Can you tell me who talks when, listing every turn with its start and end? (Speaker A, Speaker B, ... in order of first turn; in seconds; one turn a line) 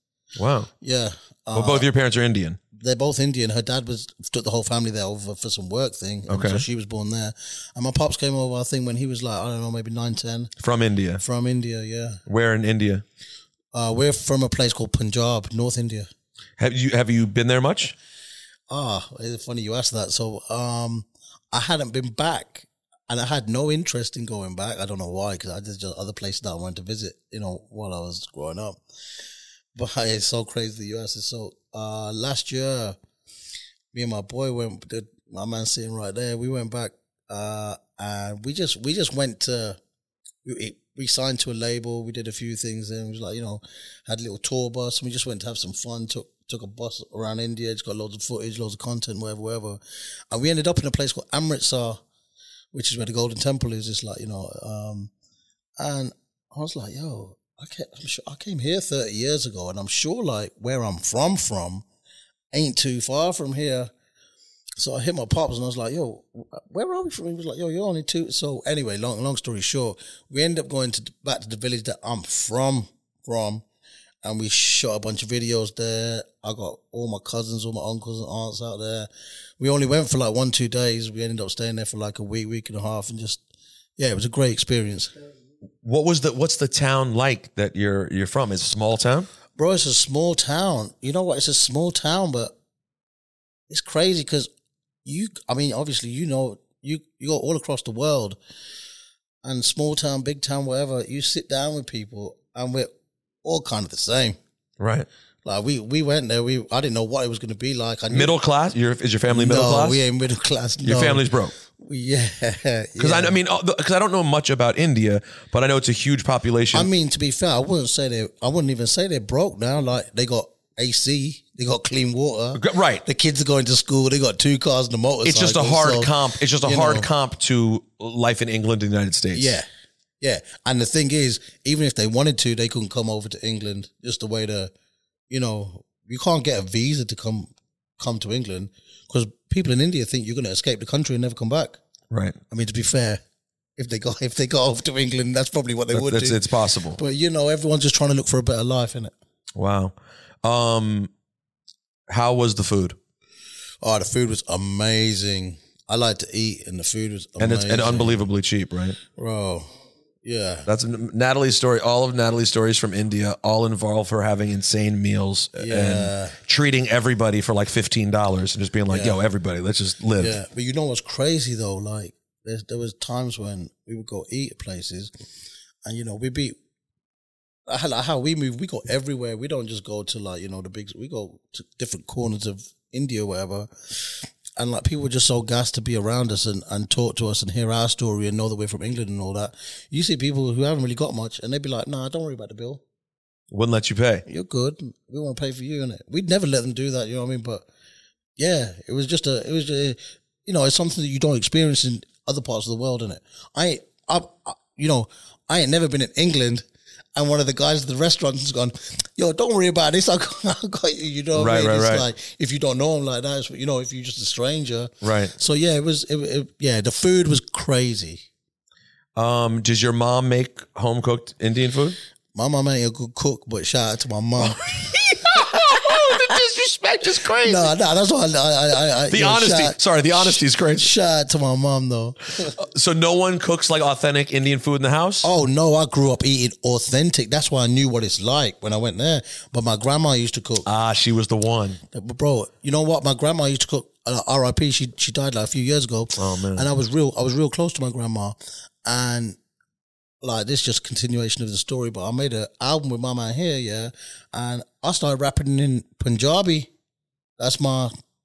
Speaker A: 0.3-0.7
Speaker B: 0.8-1.9
Speaker A: 1.5-2.6
Speaker B: 2.7-10.5
Speaker A: 6.3-6.6
Speaker A: 10.6-11.2
Speaker B: 11.2-12.2
Speaker A: 12.3-13.0
Speaker B: 13.7-16.1
Speaker A: 16.6-17.9
Speaker B: 18.7-28.8
Speaker B: 29.7-33.0
Speaker B: 33.9-39.8
Speaker B: 40.4-49.8
Speaker B: 50.3-52.0
Speaker B: 52.7-55.1
Speaker B: 55.8-61.8
Speaker B: 62.5-63.9
Speaker B: 64.8-73.6
Speaker B: 74.2-83.4
Speaker B: 84.0-85.1
Speaker A: 85.8-89.3
Speaker B: 89.5-92.5
Speaker B: 93.7-94.5
Speaker B: 95.0-98.4
Speaker B: 99.4-102.9
Speaker B: 103.4-104.4
Speaker A: 104.8-105.1
Speaker B: 105.4-108.3
Speaker A: 108.1-110.0
Speaker B: 109.3-113.4
Speaker A: 110.8-111.5
Speaker A: 113.0-116.9
Speaker B: 116.7-127.1
Speaker A: 122.5-123.0
Speaker A: 125.2-129.6
Speaker B: 129.3-129.7
Speaker B: 130.2-134.7
Speaker B: 135.3-141.8
Speaker A: 142.1-142.4
Speaker B: 142.5-143.2
Speaker B: 143.8-146.4
Speaker A: 145.9-147.0
Speaker B: 146.9-149.1
Speaker A: 149.6-151.1
Speaker A: 152.1-153.0
Speaker B: 153.8-158.2
Speaker A: 157.4-159.0
Speaker B: 159.1-159.7
Speaker B: 160.2-160.7
Speaker A: 160.7-170.4
Speaker B: 165.6-166.4
Speaker B: 168.9-169.2
Speaker B: 170.2-175.1
Speaker B: 175.8-176.6
Speaker B: 177.7-192.8
Speaker A: 193.5-194.2
Speaker B: 194.3-197.7
Speaker B: 198.4-218.2
Speaker A: 211.3-212.1
Speaker A: 215.0-215.3
Speaker A: 219.2-222.0
Speaker B: 222.3-224.6
Speaker A: 224.4-227.7
Speaker B: 227.4-232.5
Speaker A: 229.1-230.9
Speaker A: 232.5-235.3
Speaker B: 235.2-240.7
Speaker A: 240.6-241.8
Speaker B: 241.9-249.4
Speaker A: 246.2-246.7
Speaker B: 250.2-256.7
Speaker B: 257.4-257.9